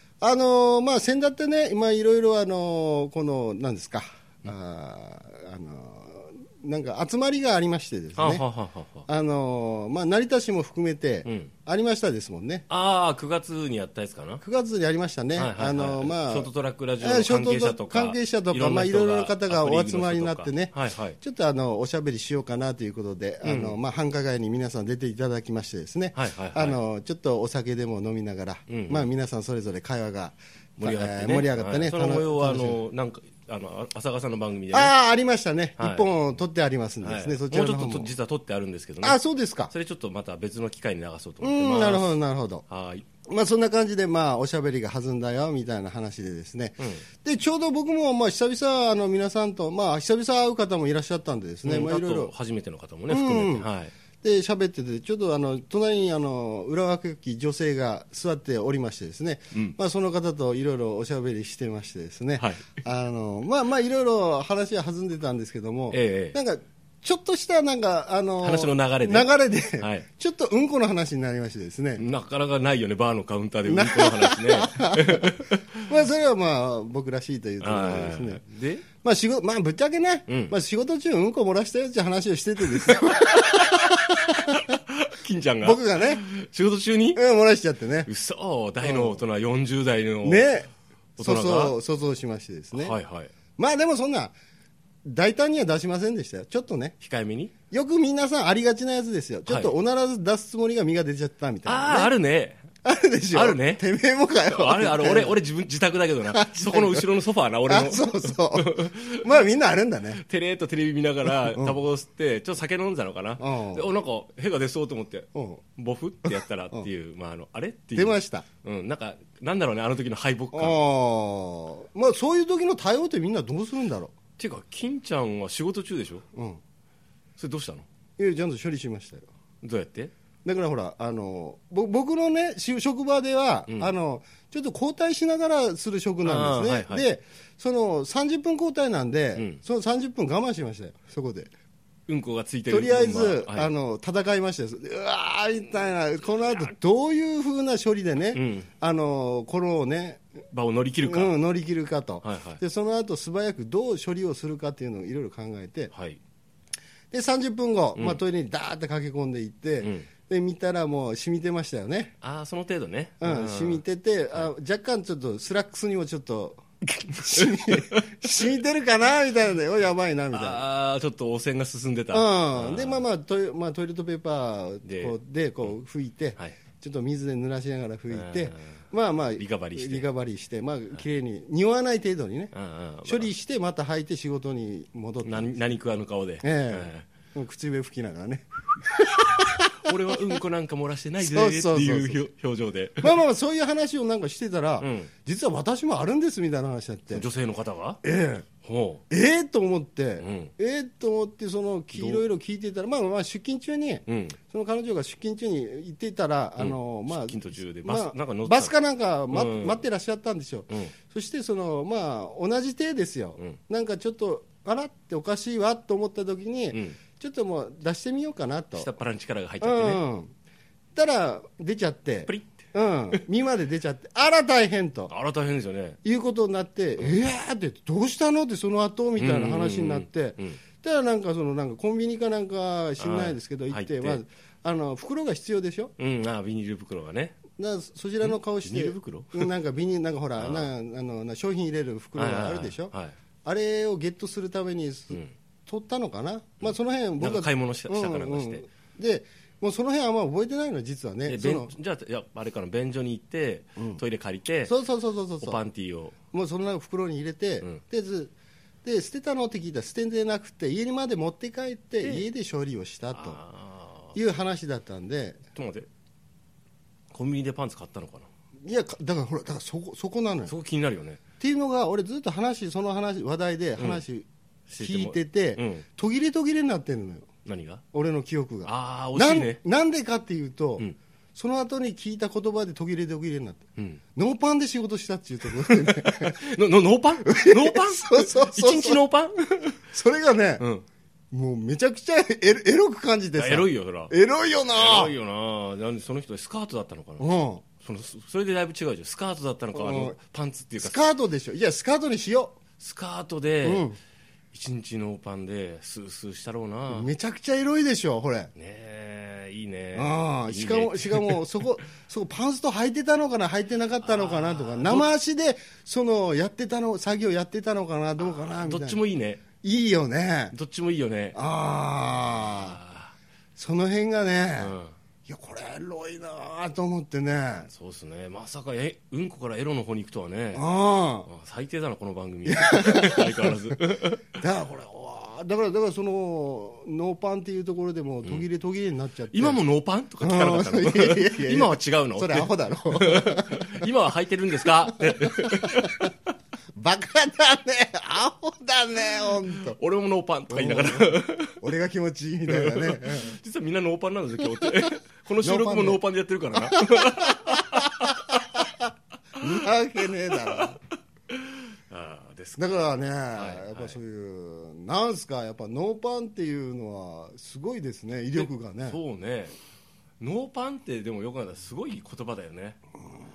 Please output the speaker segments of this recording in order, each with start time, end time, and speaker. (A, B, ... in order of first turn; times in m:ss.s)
0:00.2-0:08.4 A
0:08.2-0:09.1 B
0:09.1-0:12.7 A
0:11.2-0:11.5 B
0:12.7-0:14.4 B
0:14.4-0:32.8 A
0:15.3-0:21.2 B
0:23.4-0:23.8 B
0:26.1-0:26.8 B
0:28.7-0:29.1 B
0:30.8-0:35.0 B
0:34.7-0:38.1 A
0:35.8-0:36.1 B
0:37.0-0:42.2 B
0:39.0-0:39.7 A
0:41.4-0:42.6 A
0:42.7-0:43.1 B
0:43.3-0:52.3 A
0:46.8-0:47.1 B
0:51.6-0:53.9 B
0:53.1-0:53.7 A
0:54.2-1:12.1 A
0:59.5-0:59.8 B
1:02.4-1:02.8 B
1:05.9-1:06.4 B
1:08.4-1:10.1 B
1:12.0-1:16.0 B
1:13.6-1:18.4 A
1:17.6-1:18.9 B
1:19.0-1:24.7 A
1:20.3-1:20.6 B
1:23.1-1:27.2 B
1:25.6-1:26.2 A
1:27.1-1:28.1 A
1:28.0-1:30.5 B
1:28.8-1:29.2 A
1:30.2-1:33.0 A
1:31.2-1:31.8 B
1:32.7-1:33.3 B
1:33.6-1:34.4 A
1:35.0-1:37.0 A
1:37.0-1:37.5 B
1:37.7-1:42.1 A
1:39.5-1:39.7 B
1:41.6-1:42.7 B
1:42.8-1:45.4 A
1:43.3-1:43.9 B
1:44.5-1:49.3 B
1:46.2-1:47.1 A
1:47.6-1:50.2 A
1:50.1-2:00.8 B
1:51.3-1:51.8 A
1:53.4-1:53.9 A
1:55.3-1:55.6 A
1:56.2-1:56.9 A
1:58.0-1:58.5 A
2:00.5-2:04.1 A
2:04.4-2:06.2 B
2:06.4-2:06.6 A
2:07.4-2:07.9 B
2:08.2-2:09.3 A
2:09.6-2:10.1 B
2:10.4-2:21.5 A
2:13.7-2:13.9 B
2:16.2-2:17.1 B
2:19.4-2:19.6 B
2:22.1-2:23.7 B
2:22.7-2:30.3 A
2:28.3-2:28.7 B
2:30.5-2:31.4 B
2:31.0-2:35.9 A
2:32.2-2:32.6 B
2:35.9-2:36.2 B
2:37.1-2:42.2 A
2:39.8-2:40.1 B
2:42.2-2:44.5 B
2:43.2-2:50.7 A
2:47.4-2:48.0 B
2:50.3-2:53.1 B
2:52.1-3:02.5 A
2:54.8-2:55.8 B
2:58.1-2:58.8 B
2:59.4-3:00.1 B
3:02.5-3:03.3 B
3:03.0-3:05.7 A
3:05.2-3:07.1 B
3:06.4-3:09.6 A
3:09.8-3:13.2 B
3:11.2-3:12.2 A
3:13.0-3:17.3 A
3:14.8-3:15.1 B
3:17.1-3:18.0 B
3:18.0-3:18.5 A
3:18.6-3:19.0 B
3:19.1-3:38.9 A
3:20.2-3:20.5 B
3:21.9-3:22.2 B
3:24.1-3:24.4 B
3:26.6-3:28.8 B
3:29.3-3:29.8 B
3:30.7-3:31.0 B
3:36.7-3:37.0 B
3:38.8-3:40.0 B
3:39.6-3:40.3 A
3:41.0-3:45.1 A
3:42.3-3:43.2 B
3:45.1-3:46.0 B
3:46.0-3:55.9 A
3:49.2-3:50.6 B
3:53.0-3:54.2 B
3:56.0-3:57.4 B
3:57.6-4:11.7 A
3:58.2-3:59.5 B
4:00.4-4:00.7 B
4:02.2-4:03.2 B
4:06.6-4:08.7 B
4:11.2-4:14.8 B
4:13.8-4:14.0 A
4:14.6-4:15.6 A
4:15.4-4:16.2 B
4:16.3-4:18.3 A
4:18.8-4:23.4 A
4:22.0-4:22.3 B
4:23.1-4:24.2 B
4:24.1-4:25.4 A
4:25.6-4:25.9 B
4:27.1-4:28.3 B
4:28.6-4:30.5 A
4:30.5-4:31.2 B
4:31.4-4:34.3 A
4:33.8-4:34.0 B
4:34.7-4:35.9 B
4:34.8-4:37.3 A
4:37.4-4:37.8 B
4:37.9-4:43.6 A
4:38.6-4:39.6 B
4:43.8-4:44.0 B
4:44.2-4:46.4 A
4:45.6-4:49.8 B
4:47.2-4:49.0 A
4:49.9-4:50.6 A
4:50.6-4:50.9 B
4:51.3-4:55.2 A
4:53.4-4:54.2 B
4:54.7-5:01.0 B
4:57.2-4:57.6 A
4:59.7-5:00.2 A
5:00.8-5:02.6 A
5:02.8-5:03.9 B
5:03.6-5:04.0 A
5:04.5-5:07.1 B
5:06.9-5:08.5 A
5:08.6-5:11.6 B
5:09.9-5:19.0 A
5:14.0-5:15.1 B
5:18.2-5:19.4 B
5:19.6-5:20.6 A
5:20.5-5:21.4 B
5:21.3-5:22.8 A
5:22.2-5:23.1 B
5:23.6-5:27.7 A
5:24.6-5:25.0 B
5:27.6-5:30.7 B
5:30.5-5:31.3 A
5:31.3-5:34.3 B
5:32.4-5:33.8 A
5:34.4-5:39.6 A
5:39.3-5:46.1 B
5:40.2-5:43.9 A
5:44.6-5:46.1 A
5:46.8-5:49.8 A
5:49.2-5:51.6 B
5:50.5-5:53.4 A
5:52.5-5:58.7 B
5:55.4-5:56.0 A
5:56.6-5:58.7 A
5:59.4-6:00.8 A
6:00.3-6:00.7 B
6:01.3-6:04.0 B
6:02.6-6:09.0 A
6:08.3-6:09.6 B
6:10.2-6:12.8 B